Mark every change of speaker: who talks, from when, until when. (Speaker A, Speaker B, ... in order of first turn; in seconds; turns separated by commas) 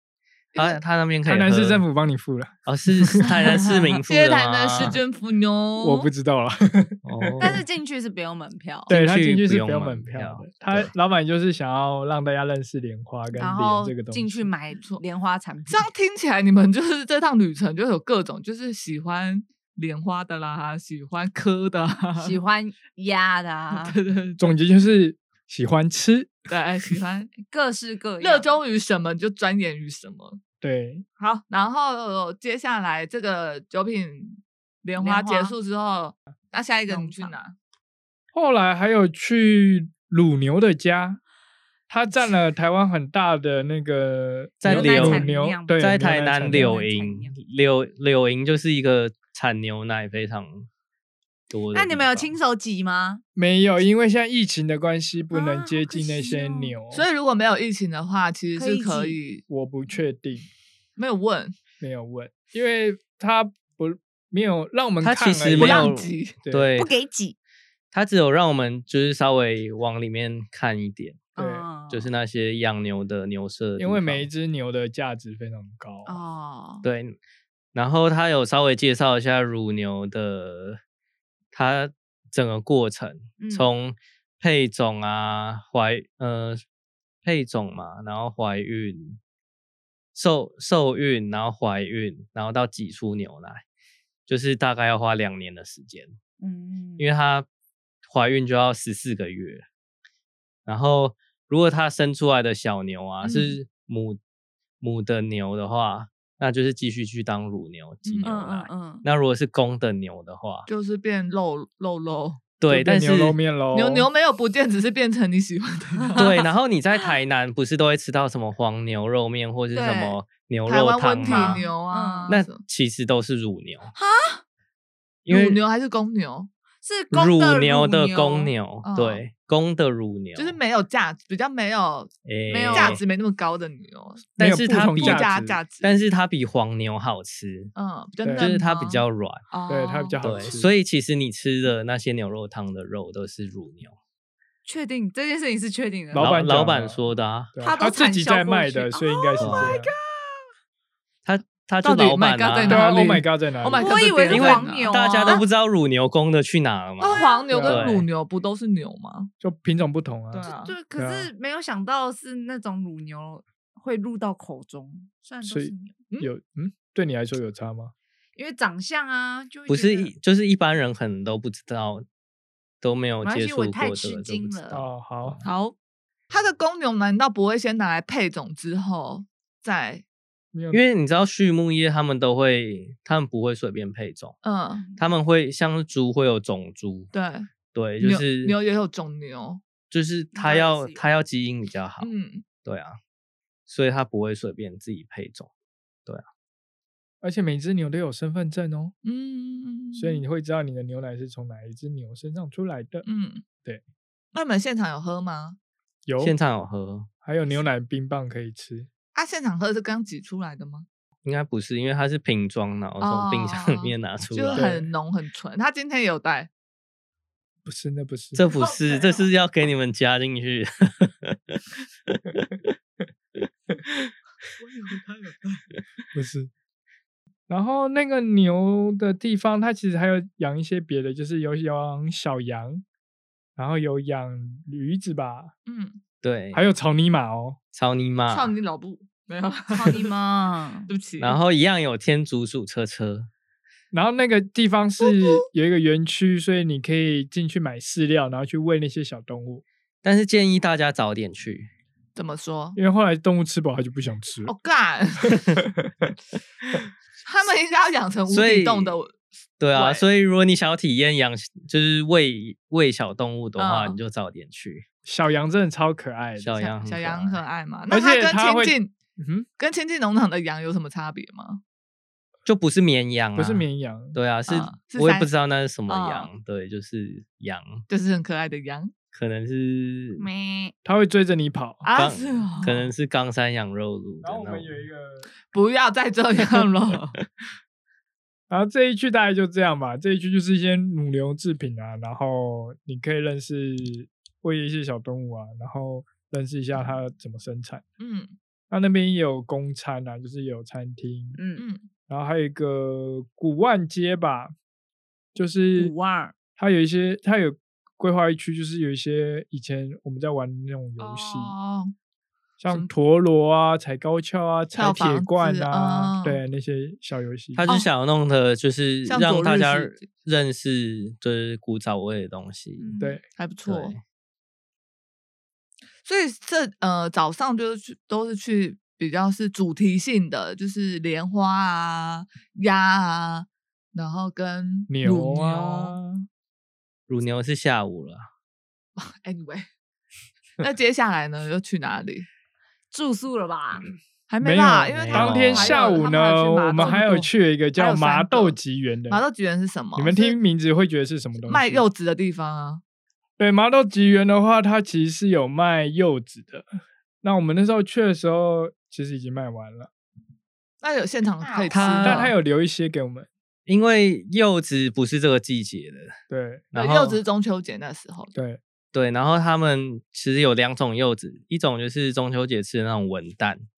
Speaker A: 0.5-0.8, Speaker B: 0.6-1.8, Speaker C: 1.2-3.6, Speaker B: 2.6-5.0, Speaker A: 4.0-6.1, Speaker C: 5.8-7.6, Speaker B: 7.0-7.6, Speaker D: 7.4-8.9, Speaker B: 8.9-10.9, Speaker C: 8.9-14.5, Speaker D: 13.4-15.9, Speaker A: 15.7-22.4, Speaker D: 22.2-23.9, Speaker A: 23.7-24.5, Speaker C: 24.4-26.3, Speaker A: 26.5-27.3, Speaker D: 27.4-28.5, Speaker A: 28.2-30.4, Speaker C: 30.6-31.0, Speaker A: 31.2-37.5, Speaker D: 35.0-35.5, Speaker D: 36.9-37.4, Speaker C: 38.3-41.2, Speaker C: 41.9-46.7, Speaker B: 44.6-50.7, Speaker D: 44.6-47.3, Speaker B: 51.5-52.3, Speaker D: 51.7-53.2, Speaker C: 53.4-57.0, Speaker D: 55.3-56.7, Speaker A: 56.9-59.4, Speaker D: 58.5-59.2, Speaker C: 59.5-60.5, Speaker A: 61.0-61.5, Speaker C: 61.8-65.9, Speaker B: 65.0-66.9, Speaker A: 65.6-66.3, Speaker C: 66.4-66.7, Speaker D: 66.8-67.3, Speaker B: 67.9-71.2, Speaker C: 71.3-71.7, Speaker D: 71.3-72.1, Speaker B: 71.9-74.3, Speaker C: 73.8-76.2, Speaker D: 76.0-76.8, Speaker B: 76.8-77.2, Speaker B: 77.7-80.8, Speaker B: 81.5-86.6, Speaker D: 83.4-83.7, Speaker B: 87.2-89.2, Speaker B: 90.1-93.6, Speaker B: 94.3-96.1, Speaker D: 96.4-97.1, Speaker B: 97.0-97.5, Speaker B: 98.1-99.6, Speaker B: 100.7-104.2, Speaker A: 103.2-103.6, Speaker B: 104.8-110.7, Speaker A: 108.0-108.3, Speaker D: 108.2-109.0, Speaker A: 110.7-112.4, Speaker B: 112.6-113.4, Speaker C: 112.7-114.1, Speaker A: 113.7-116.3, Speaker B: 116.2-121.7, Speaker D: 119.7-120.2, Speaker A: 120.7-122.6, Speaker D: 121.2-122.3, Speaker B: 122.3-123.9, Speaker D: 124.0-124.4, Speaker B: 125.2-125.6, Speaker A: 125.3-126.5, Speaker D: 126.8-128.5, Speaker B: 127.1-130.6, Speaker A: 128.8-129.2, Speaker A: 130.3-132.1, Speaker B: 132.2-133.0, Speaker D: 132.5-133.0, Speaker A: 132.7-134.3, Speaker B: 134.4-135.3, Speaker C: 134.4-135.6, Speaker A: 134.9-135.9, Speaker B: 135.8-137.7, Speaker A: 137.7-140.5, Speaker C: 138.2-138.5, Speaker B: 138.4-139.4, Speaker C: 139.7-140.7, Speaker B: 140.2-143.9, Speaker D: 144.6-146.3, Speaker B: 146.1-147.5, Speaker C: 146.1-149.9, Speaker D: 147.6-149.9, Speaker B: 149.4-149.8, Speaker B: 151.2-152.9, Speaker A: 151.8-155.4, Speaker C: 152.7-153.9, Speaker D: 153.7-155.4, Speaker B: 154.3-158.1, Speaker A: 157.0-159.3, Speaker D: 157.1-157.5, Speaker C: 157.5-157.8, Speaker C: 159.4-161.3, Speaker A: 160.3-160.7, Speaker D: 160.5-166.0, Speaker C: 165.4-167.9, Speaker D: 168.3-170.1, Speaker B: 169.7-172.0, Speaker B: 172.8-175.4, Speaker D: 173.2-174.8, Speaker C: 174.7-175.4, Speaker A: 175.4-175.7, Speaker A: 176.3-180.0, Speaker C: 180.5-180.8, Speaker B: 180.7-184.4, Speaker A: 184.4-184.8, Speaker B: 185.0-187.1, Speaker A: 187.1-189.6, Speaker B: 187.7-188.6, Speaker B: 189.9-192.1, Speaker D: 190.3-191.1, Speaker A: 192.0-192.4, Speaker B: 192.6-193.0, Speaker B: 193.7-195.5, Speaker C: 197.2-198.9, Speaker A: 199.0-200.2, Speaker C: 199.9-203.0, Speaker A: 203.1-203.4, Speaker A: 204.3-205.6, Speaker C: 206.1-206.3, Speaker B: 206.2-207.1, Speaker C: 207.2-208.9, Speaker A: 209.1-210.9, Speaker B: 211.2-214.7, Speaker A: 213.0-216.5, Speaker C: 214.5-214.9, Speaker C: 217.6-218.4, Speaker B: 218.3-222.7, Speaker A: 218.5-219.1, Speaker A: 224.6-225.6, Speaker C: 226.1-226.5, Speaker C: 227.5-232.8, Speaker C: 233.6-235.5, Speaker A: 235.7-236.0, Speaker B: 236.2-236.7, Speaker C: 236.5-237.6, Speaker B: 237.7-238.5, Speaker A: 238.3-240.1, Speaker D: 239.7-240.9, Speaker A: 240.9-241.4, Speaker B: 241.2-243.3, Speaker C: 243.9-249.6, Speaker A: 245.0-245.4, Speaker B: 250.0-251.7, Speaker A: 252.1-252.8, Speaker C: 252.8-254.5, Speaker A: 254.4-255.4, Speaker C: 255.5-256.1, Speaker A: 257.2-259.2, Speaker B: 258.3-259.0, Speaker B: 259.6-264.9, Speaker A: 259.7-260.0, Speaker A: 263.6-264.0, Speaker C: 265.1-266.6, Speaker B: 266.4-267.4, Speaker A: 266.6-268.9, Speaker C: 267.9-269.5, Speaker A: 269.6-271.6, Speaker B: 272.4-277.8, Speaker C: 273.4-274.2, Speaker A: 274.5-275.3, Speaker A: 275.9-276.3, Speaker A: 277.9-278.9, Speaker B: 279.1-280.3, Speaker D: 280.2-280.7, Speaker C: 280.8-281.8, Speaker A: 281.8-282.9, Speaker B: 281.9-284.8, Speaker C: 284.2-285.3, Speaker A: 285.5-287.1, Speaker C: 288.5-297.8, Speaker A: 298.0-298.3, Speaker C: 298.7-301.4, Speaker D: 301.4-301.6, Speaker A: 301.6-301.9, Speaker C: 302.1-304.5, Speaker C: 305.3-305.9, Speaker D: 305.7-306.3, Speaker C: 306.6-311.5, Speaker A: 311.0-311.9, Speaker C: 312.6-317.7, Speaker A: 314.7-316.4, Speaker B: 317.5-322.9, Speaker A: 319.1-320.0, Speaker D: 322.8-323.2, Speaker A: 323.4-323.9, Speaker B: 323.6-324.0, Speaker A: 326.0-335.9, Speaker C: 334.9-336.2, Speaker B: 337.1-338.2, Speaker A: 339.0-339.7, Speaker A: 340.6-342.2, Speaker D: 342.9-343.9, Speaker A: 344.3-348.6, Speaker C: 344.4-349.2, Speaker B: 345.1-345.8, Speaker A: 349.1-350.4, Speaker C: 349.9-351.8, Speaker A: 351.4-352.8, Speaker C: 353.4-356.7, Speaker C: 357.2-359.9, Speaker A: 360.8-362.3, Speaker D: 361.4-362.0, Speaker B: 361.7-362.3, Speaker C: 362.0-363.3, Speaker B: 363.7-366.2, Speaker C: 366.3-366.6, Speaker B: 366.7-367.2, Speaker A: 366.7-368.3, Speaker C: 368.3-368.6, Speaker B: 368.9-373.6